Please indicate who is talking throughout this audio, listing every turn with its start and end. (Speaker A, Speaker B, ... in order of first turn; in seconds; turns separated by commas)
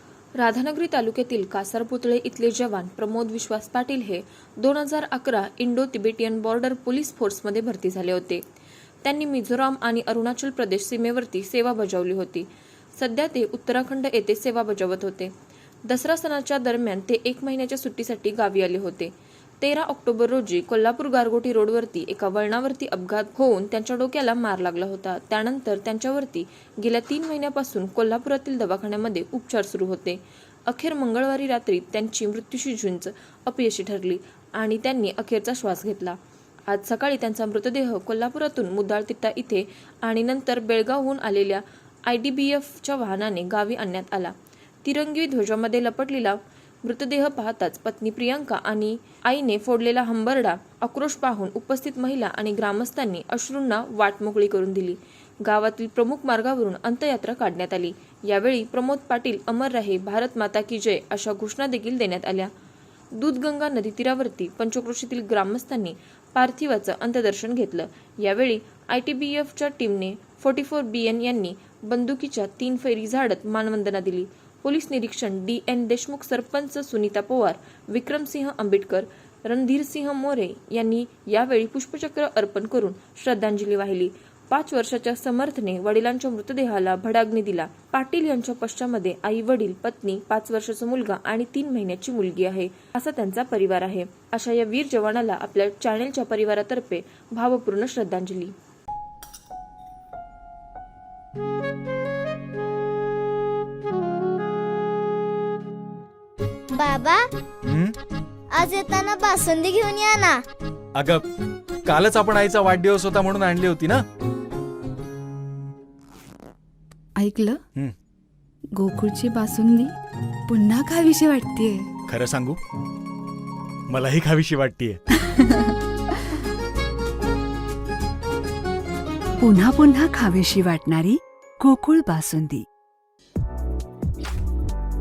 Speaker A: 0.4-8.4, Speaker A: 9.0-15.3, Speaker A: 15.9-36.2, Speaker A: 36.7-62.5, Speaker A: 63.1-98.5, Speaker B: 106.7-107.3, Speaker C: 107.7-107.9, Speaker B: 108.5-110.4, Speaker C: 111.0-111.2, Speaker C: 111.8-114.0, Speaker D: 117.2-117.6, Speaker D: 118.7-119.9, Speaker D: 120.5-121.9, Speaker C: 122.1-122.6, Speaker C: 123.9-125.0, Speaker E: 129.4-132.6